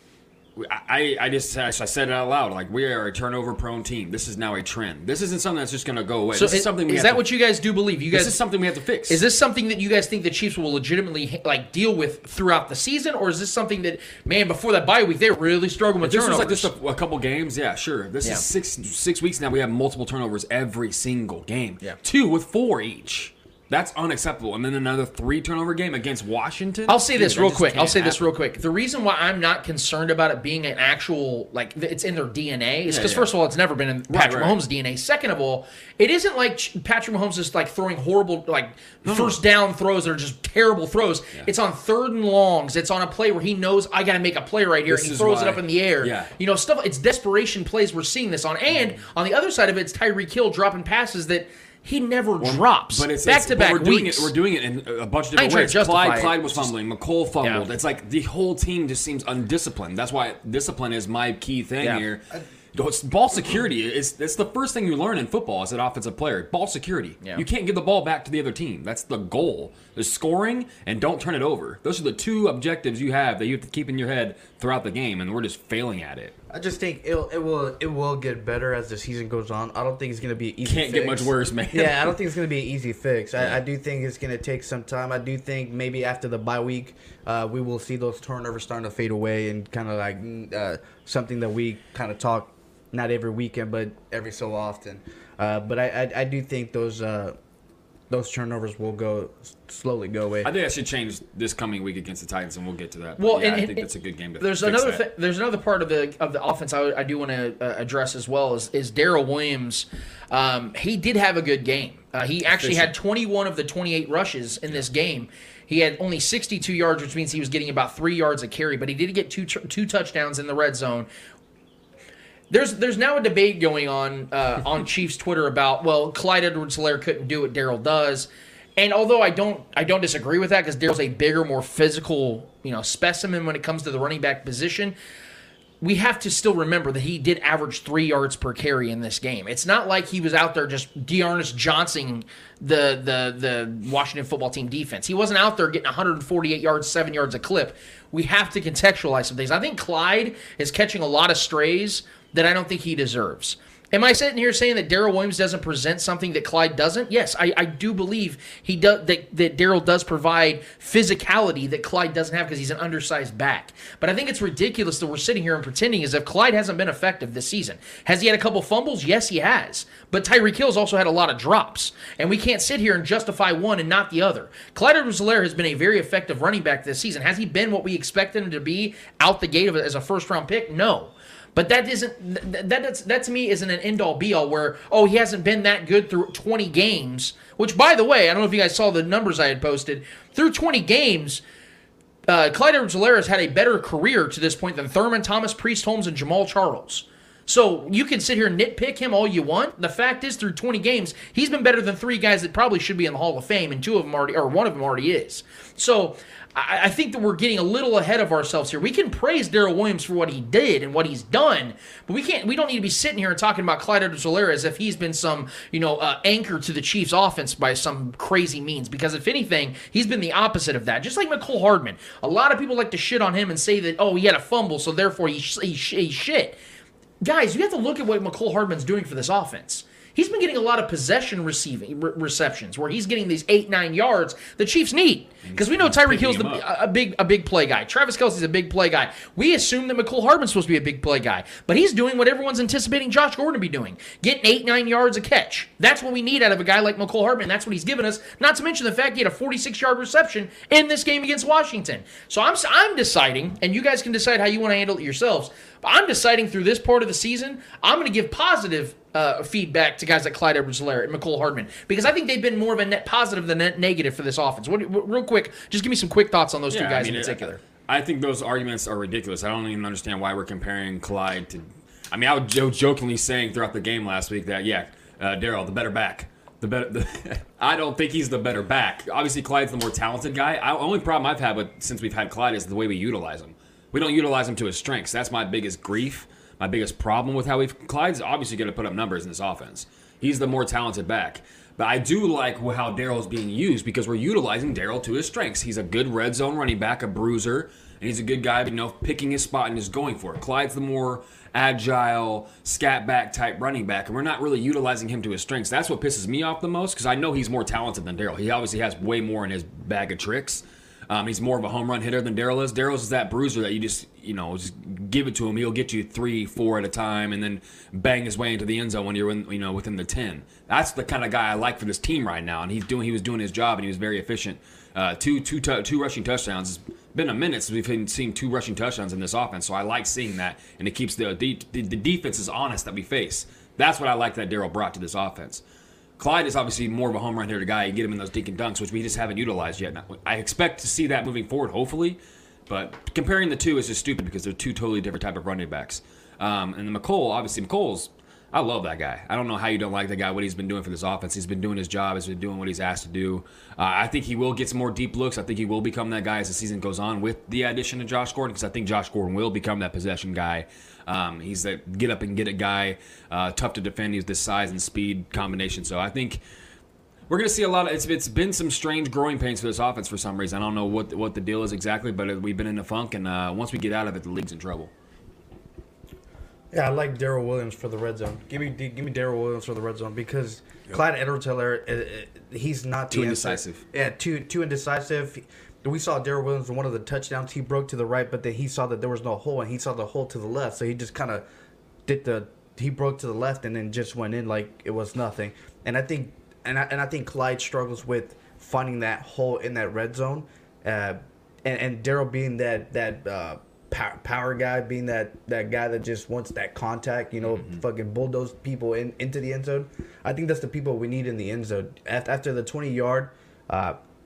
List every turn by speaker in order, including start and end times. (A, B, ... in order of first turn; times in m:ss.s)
0:00.6-0:07.2 A
0:06.3-0:08.4 B
0:08.1-0:09.2 A
0:09.1-0:16.7 B
0:16.0-0:28.3 A
0:26.9-0:54.3 B
0:32.9-0:33.3 A
0:34.1-0:34.6 A
0:39.0-0:39.4 A
0:44.9-0:46.3 A
0:52.4-1:16.3 A
0:55.4-0:56.7 B
1:16.5-1:37.4 C
1:20.6-1:22.2 A
1:23.4-1:23.6 A
1:38.1-1:40.5 C
1:40.4-1:45.0 A
1:43.2-1:43.9 B
1:44.4-2:01.1 B
1:52.5-1:52.9 A
2:02.5-2:14.9 B
2:15.8-3:11.4 B
3:12.3-3:46.6 B
3:47.2-4:27.6 B
3:55.4-3:56.6 A
4:26.7-5:35.6 A
5:36.2-6:06.4 A
6:07.3-6:14.9 A
6:16.7-6:31.4 C
6:23.1-6:23.8 A
6:32.0-6:54.0 C